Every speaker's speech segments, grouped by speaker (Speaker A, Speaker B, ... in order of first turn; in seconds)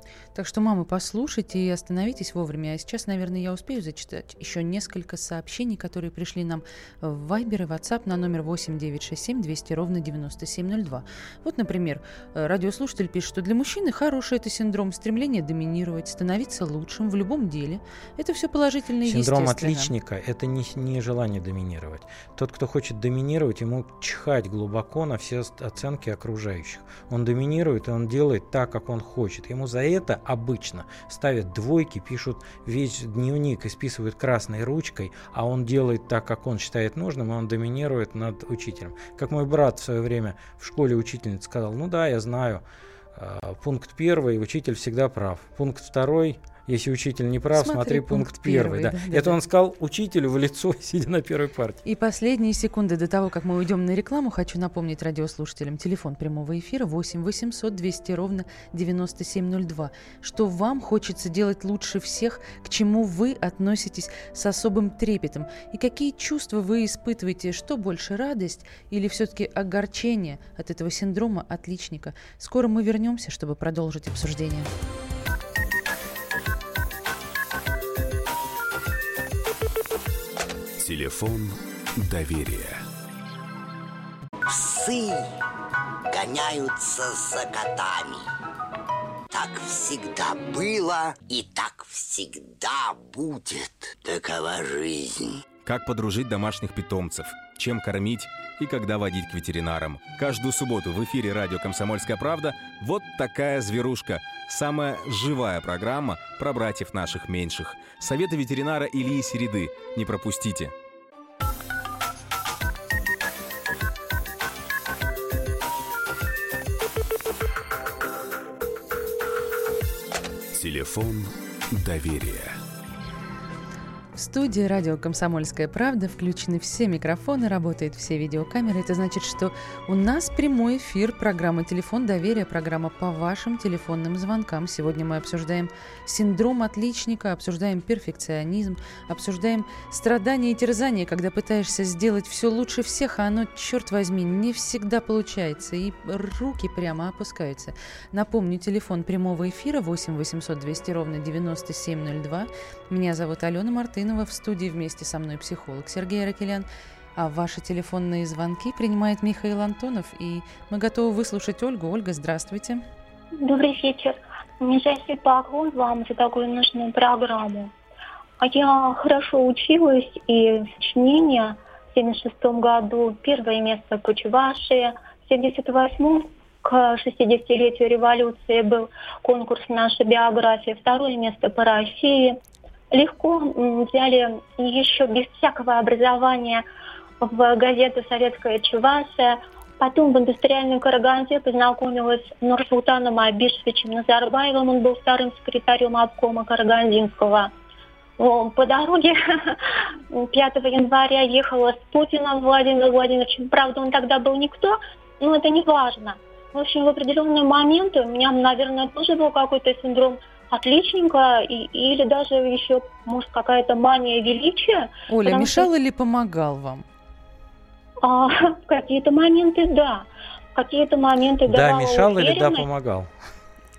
Speaker A: 0.3-19.9, 47.5-49.4, 51.8-74.7, 124.2-162.8, 215.1-216.8
Speaker B: 19.0-42.6, 43.1-51.8, 221.4-223.1
Speaker C: 80.8-82.8, 120.5-122.6
Speaker D: 84.5-85.2, 86.1-88.2, 89.3-95.4
Speaker E: 95.6-110.7
Speaker F: 163.4-167.7, 168.4-182.4, 182.9-186.6, 187.2-197.5, 198.2-199.6, 200.1-215.7, 218.0-222.7